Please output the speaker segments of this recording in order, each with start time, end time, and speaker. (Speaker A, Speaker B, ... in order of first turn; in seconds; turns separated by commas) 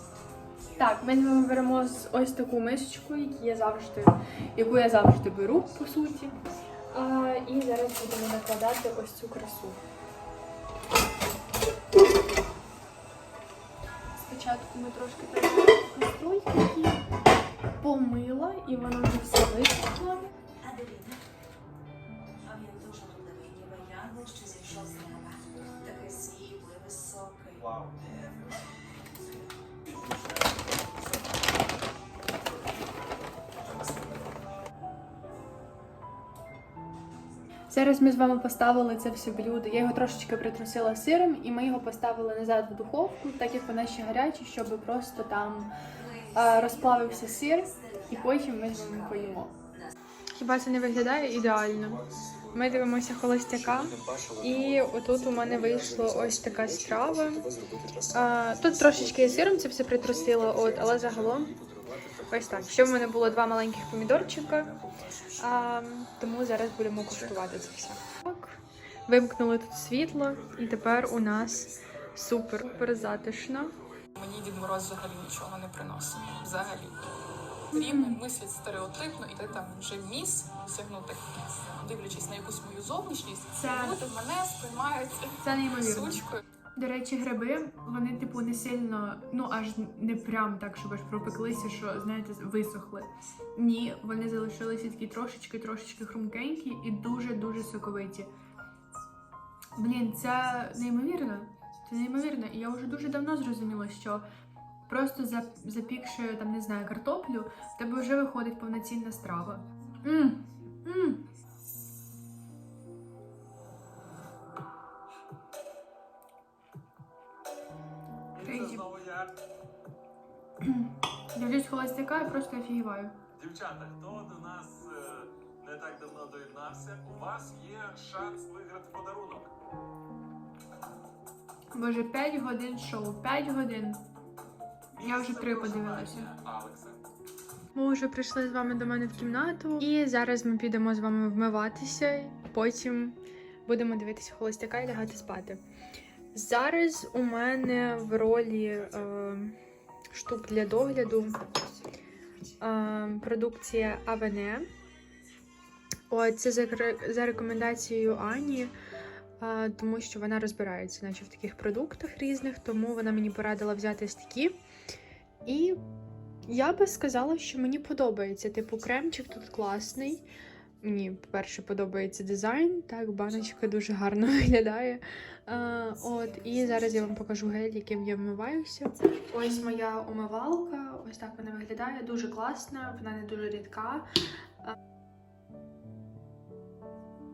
Speaker A: 0.8-9.8, Speaker A: 14.2-17.0, Speaker A: 17.8-20.4, Speaker B: 23.4-25.0, Speaker B: 26.0-26.2, Speaker B: 26.8-27.6, Speaker A: 37.7-45.7, Speaker A: 46.3-49.5, Speaker A: 50.4-61.6, Speaker A: 62.2-73.8, Speaker C: 74.2-86.4, Speaker A: 77.7-78.2, Speaker A: 83.5-84.0, Speaker A: 85.4-98.3, Speaker A: 99.8-104.2, Speaker A: 104.9-111.2, Speaker A: 118.3-118.9, Speaker D: 118.4-119.3, Speaker A: 120.6-123.2, Speaker D: 123.3-129.5, Speaker A: 131.7-134.0, Speaker A: 135.0-136.3, Speaker D: 135.1-137.1, Speaker A: 137.8-145.6, Speaker A: 146.3-149.6, Speaker A: 150.1-151.5, Speaker A: 152.6-154.7, Speaker A: 156.1-158.7, Speaker A: 159.4-164.6, Speaker A: 165.4-165.8, Speaker A: 166.5-170.3, Speaker A: 170.8-184.1